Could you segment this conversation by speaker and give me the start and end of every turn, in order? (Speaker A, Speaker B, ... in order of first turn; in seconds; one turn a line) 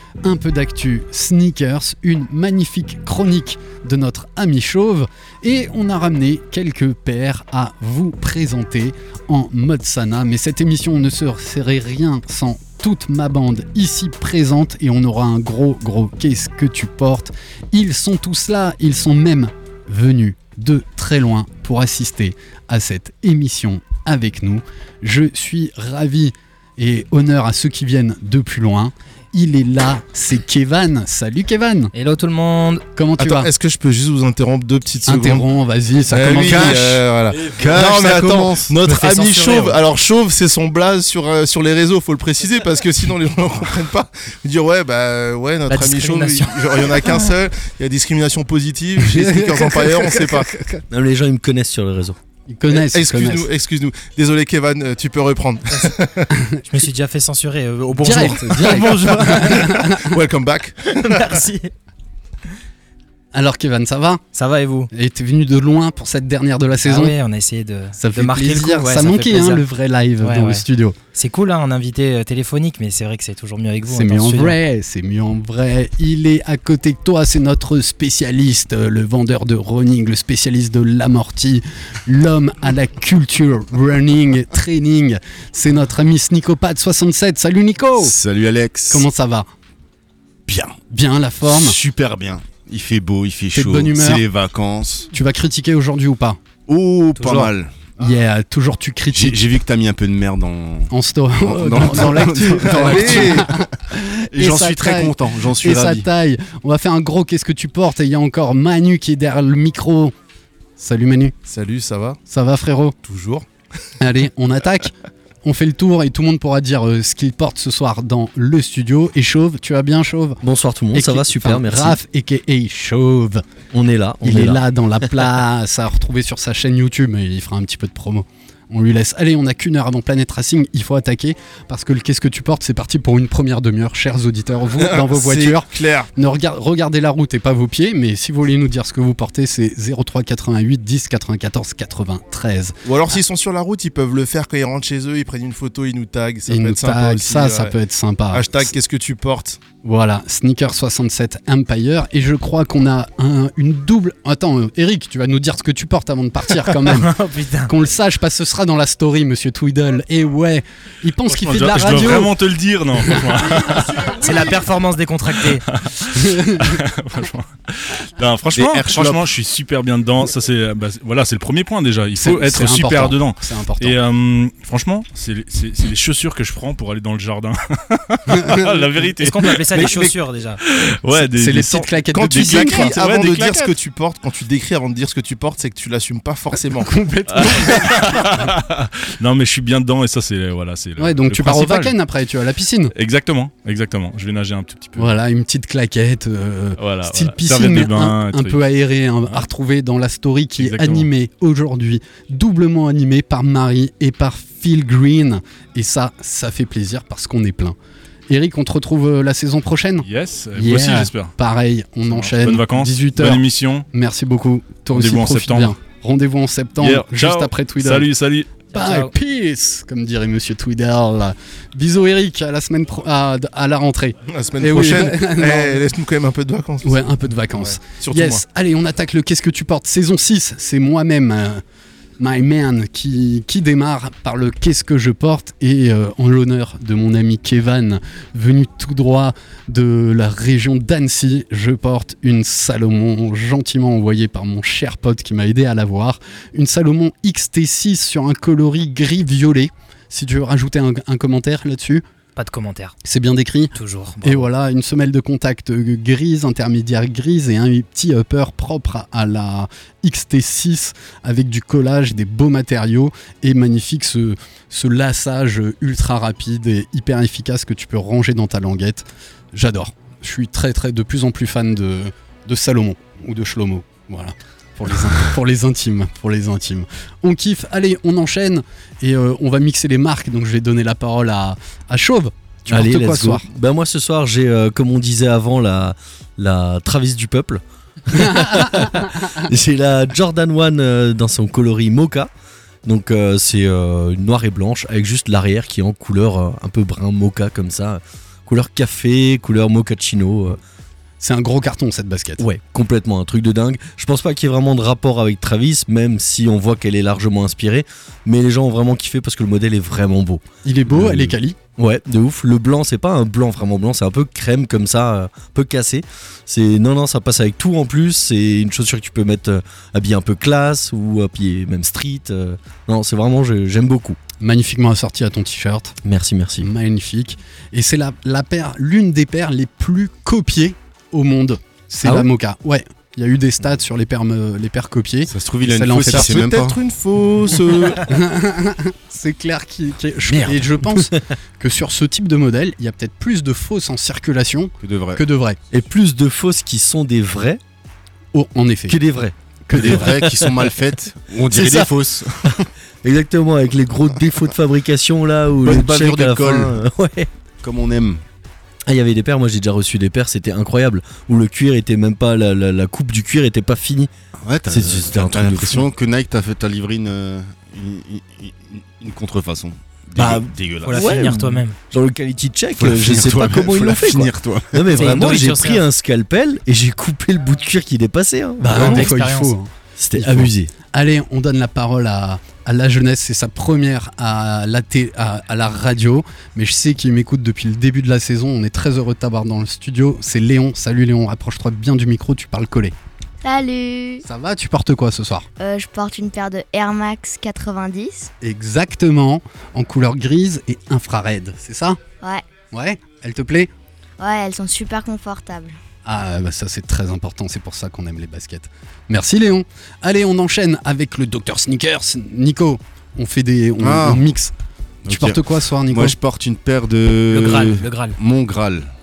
Speaker A: 0.2-31.9
Speaker B: 31.9-32.8
Speaker A: 33.0-33.5
Speaker C: 33.2-35.5
Speaker A: 35.0-37.0
Speaker C: 36.1-50.5
Speaker D: 36.3-38.8
Speaker B: 38.8-39.8
Speaker B: 45.8-46.5
Speaker A: 49.0-50.8
Speaker E: 50.9-52.2
Speaker A: 52.5-53.5
Speaker C: 52.7-56.3
Speaker B: 56.6-59.6
Speaker A: 58.0-60.1
Speaker C: 58.1-61.4
Speaker B: 61.0-61.7
Speaker A: 63.3-64.2
Speaker B: 64.3-64.9
Speaker A: 64.9-67.2
Speaker B: 66.8-69.6
Speaker A: 67.9-71.0
Speaker B: 70.2-74.6
Speaker A: 73.8-88.1
Speaker D: 88.0-89.0
Speaker A: 88.9-89.5
Speaker D: 90.5-90.8
Speaker A: 90.9-91.8
Speaker D: 91.4-95.1
Speaker A: 93.5-94.2
Speaker A: 95.1-96.4
Speaker D: 96.7-97.9
Speaker A: 97.2-97.5
Speaker A: 98.0-99.4
Speaker D: 99.1-100.9
Speaker A: 100.9-110.1
Speaker D: 101.4-103.7
Speaker C: 102.6-103.5
Speaker D: 104.3-106.1
Speaker A: 110.8-111.3
Speaker C: 111.5-112.2
Speaker A: 112.3-113.0
Speaker C: 113.0-113.4
Speaker A: 114.0-114.9
Speaker A: 115.4-120.4
Speaker E: 120.4-122.0
Speaker A: 120.9-123.4
Speaker E: 123.7-124.6
Speaker A: 124.2-142.8
Speaker C: 134.8-136.1
Speaker C: 142.8-147.7
Speaker A: 146.5-148.7
Speaker C: 148.3-149.6
Speaker A: 149.8-157.1
Speaker B: 156.8-157.7
Speaker A: 157.7-162.3
Speaker F: 161.3-164.5
Speaker B: 163.8-165.6
Speaker F: 165.3-183.7
Speaker A: 166.2-166.6
Speaker D: 168.5-169.3
Speaker A: 172.1-174.0
Speaker A: 178.3-178.8
Speaker B: 179.2-180.6
Speaker A: 181.1-183.3
Speaker C: 182.1-186.9
Speaker A: 186.8-188.5
Speaker F: 187.3-192.0
Speaker A: 191.0-192.9
Speaker F: 192.9-195.1
Speaker A: 195.0-207.8
Speaker F: 196.8-198.8
Speaker F: 200.6-201.1
Speaker A: 208.3-218.1
Speaker F: 210.0-211.3
Speaker F: 212.1-213.8
Speaker F: 214.9-215.7
Speaker F: 216.8-218.7
Speaker A: 218.7-225.8
Speaker B: 218.7-219.1
Speaker C: 224.3-227.1
Speaker A: 226.8-231.6
Speaker C: 227.9-228.4
Speaker A: 232.2-252.0
Speaker B: 252.3-252.9
Speaker A: 253.0-283.5
Speaker B: 253.7-254.5
Speaker E: 282.7-292.3
Speaker A: 288.1-289.1
Speaker E: 292.8-300.6
Speaker A: 301.2-302.4
Speaker E: 302.4-324.2
Speaker A: 310.6-311.6
Speaker A: 324.4-326.0
Speaker E: 326.0-326.7
Speaker A: 326.6-336.4
Speaker D: 335.3-336.8
Speaker C: 336.1-338.1
Speaker A: 337.9-345.6
Speaker B: 340.3-341.0
Speaker D: 344.8-345.2
Speaker E: 345.7-347.6
Speaker A: 348.3-349.0
Speaker E: 348.9-350.6
Speaker A: 349.7-350.1
Speaker D: 349.7-352.6
Speaker A: 351.6-351.9
Speaker E: 353.0-357.3
Speaker D: 355.6-356.8
Speaker D: 357.6-358.2
Speaker E: 358.9-364.1
Speaker D: 364.4-371.1
Speaker E: 364.7-365.9
Speaker E: 370.1-379.2
Speaker B: 370.8-371.8
Speaker D: 372.8-375.2
Speaker B: 374.9-375.8
Speaker A: 378.6-392.9
Speaker B: 378.6-379.5
Speaker E: 380.0-380.7
Speaker G: 393.4-394.2
Speaker A: 394.2-395.5
Speaker G: 395.6-398.3
Speaker A: 398.4-402.0
Speaker A: 402.7-403.7
Speaker G: 404.2-405.8
Speaker A: 406.0-414.5
Speaker D: 413.8-414.3
Speaker D: 415.0-418.9
Speaker A: 415.1-416.1
Speaker B: 417.3-418.1